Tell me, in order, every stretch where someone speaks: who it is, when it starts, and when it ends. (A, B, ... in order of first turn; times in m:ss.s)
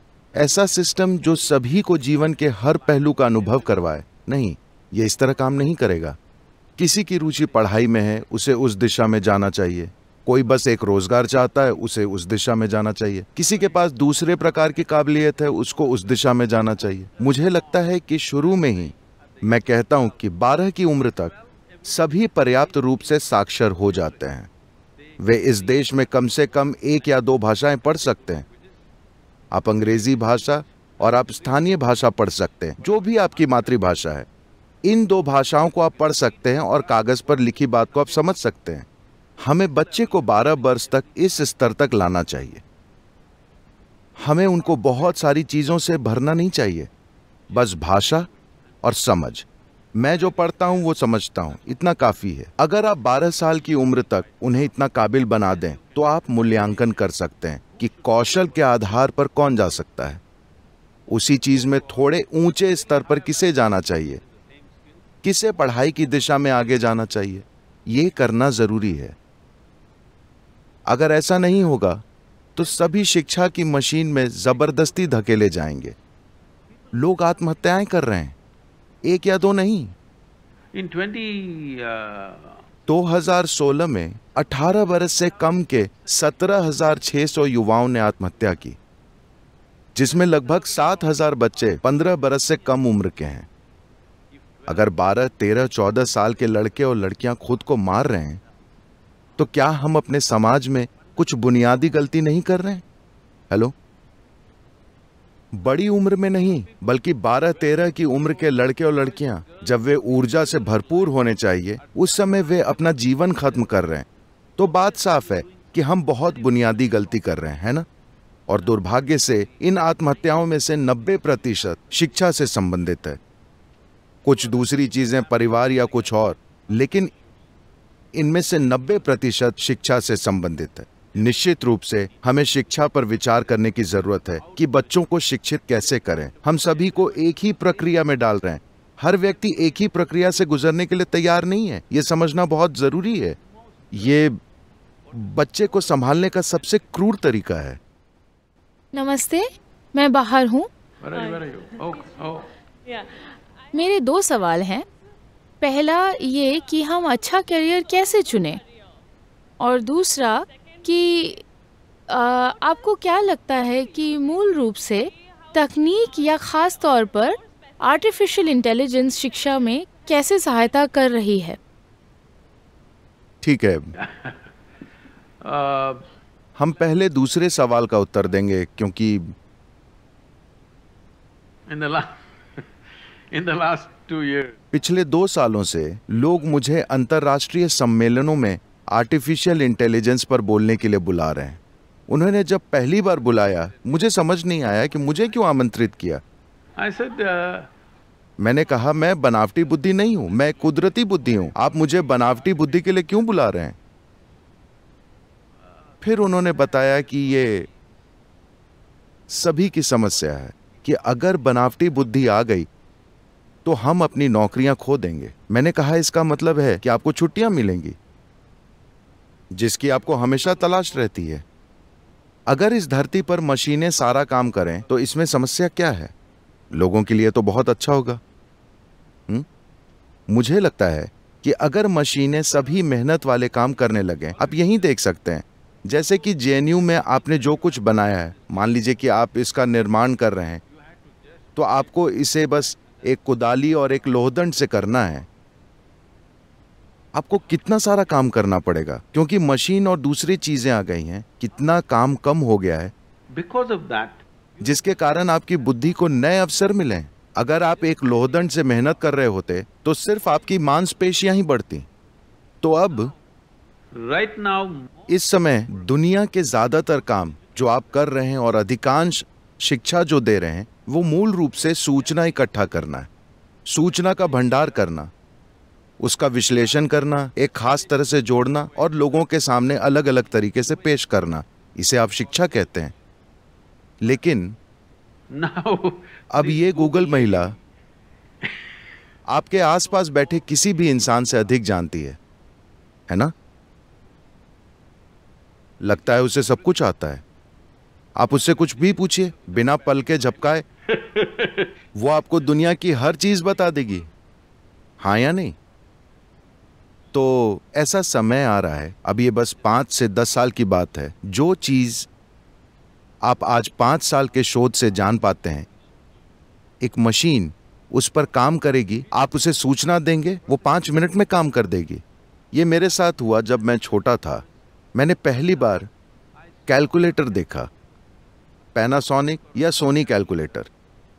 0:00.4-0:06.2 A
0:06.8-0:24.5 A
0:25.2-0:28.5 A
0:29.5-0:34.3 A
0:34.8-0:38.9 A
0:39.4-0:42.6 A
0:44.2-0:46.9 A
0:47.5-0:48.3 A
0:48.8-1:00.2 A
1:01.1-1:04.2 A
1:05.2-1:09.2 A
1:10.9-1:12.0 A
1:12.6-1:16.0 A
1:16.9-1:18.4 A
1:19.0-1:20.0 A
1:20.7-1:22.6 B
1:22.9-1:28.8 A
1:30.0-1:33.5 A
1:34.7-1:38.4 A
1:39.4-1:42.8 A
1:45.5-1:54.1 A
1:54.6-1:57.9 A
1:58.5-2:03.2 A
2:04.2-2:07.1 A
2:08.1-2:23.4 A
2:23.9-2:24.4 A
2:25.1-2:27.8 A
2:28.9-2:30.7 C
2:31.0-2:32.5 B
2:33.7-2:34.8 C
2:35.6-2:38.6 C
2:39.6-2:41.4 C
2:42.1-2:51.6 C
2:53.4-2:53.9 A
2:54.0-2:54.4 B
2:55.4-2:56.1 B
2:56.6-2:59.3 A
3:01.7-3:02.7 B
3:03.3-3:04.6 B
3:04.7-3:16.2 A
3:16.8-3:17.7 B
3:18.4-3:23.8 A
3:26.0-3:27.7 A
3:29.3-3:32.7 A
3:33.6-3:38.0 A
3:39.5-3:41.4 A
3:42.5-3:46.1 A
3:46.7-3:48.2 A
3:50.3-4:00.6 A
4:01.6-4:05.3 A
4:07.1-4:12.9 A
4:13.3-4:14.2 B
4:14.6-4:21.9 A
4:22.6-4:23.1 A
4:23.9-4:24.9 B
4:25.1-4:33.1 A
4:33.7-4:35.1 A
4:36.0-4:42.9 A
4:44.0-4:44.6 A
4:45.3-4:47.6 B
4:46.3-4:47.5 A
4:49.3-4:52.2 A
4:55.8-4:57.2 A
4:58.2-5:00.6 A
5:00.9-5:01.7 B
5:02.0-5:04.1 A
5:05.0-5:05.6 A
5:07.1-5:12.1 A
5:13.2-5:15.7 A
5:16.8-5:25.9 A
5:26.7-5:27.7 A
5:28.7-5:30.7 A